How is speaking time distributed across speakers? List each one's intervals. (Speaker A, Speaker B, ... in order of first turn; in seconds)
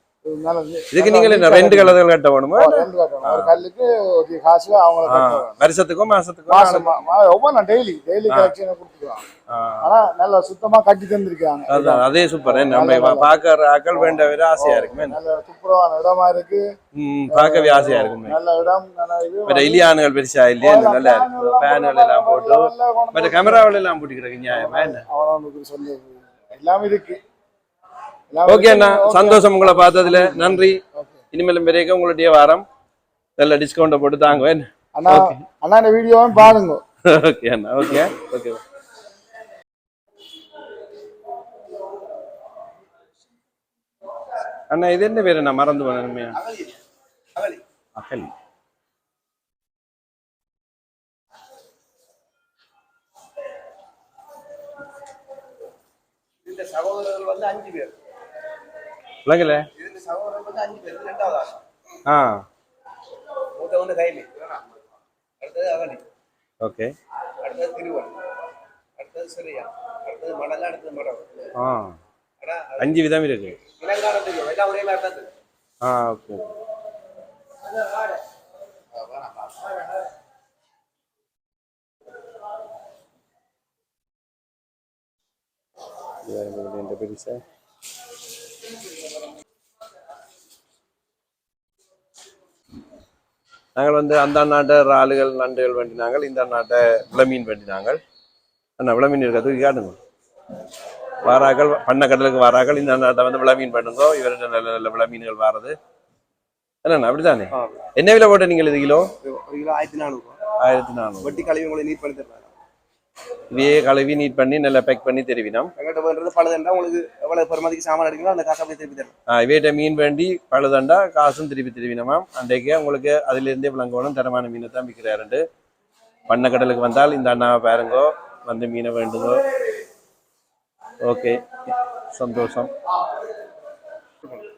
Speaker A: 0.3-2.0, 2.6-5.6, 6.5-9.2, 9.8-13.3, 13.9-16.6, 17.3-19.9, 20.6-23.7, 24.5-27.2, 28.3-31.2, 35.0-36.8
Speaker B: 0.9-3.6, 5.1-6.9, 8.3-8.5, 9.5-9.9, 11.7-15.2, 16.9-18.4, 19.5-25.1, 28.4-30.8, 31.3-32.6, 33.4-35.4, 37.0-38.6, 44.7-46.4, 48.0-48.3, 59.2-59.7, 62.1-62.5, 66.6-66.9, 71.6-72.0, 72.8-73.6, 75.8-76.5, 86.2-87.4, 93.8-98.0, 98.8-100.0, 101.2-105.8, 106.8-109.1, 110.6-111.5, 113.5-115.7, 119.3-125.4, 126.3-129.4, 131.0-132.7
Speaker C: 46.4-46.8, 47.4-47.6, 56.5-58.0, 59.8-61.6, 63.5-64.6, 65.4-66.0, 67.4-68.2, 69.0-71.5, 72.4-72.9, 73.7-75.3, 79.0-79.6, 107.5-107.9, 109.2-110.4, 111.2-112.6, 115.8-119.1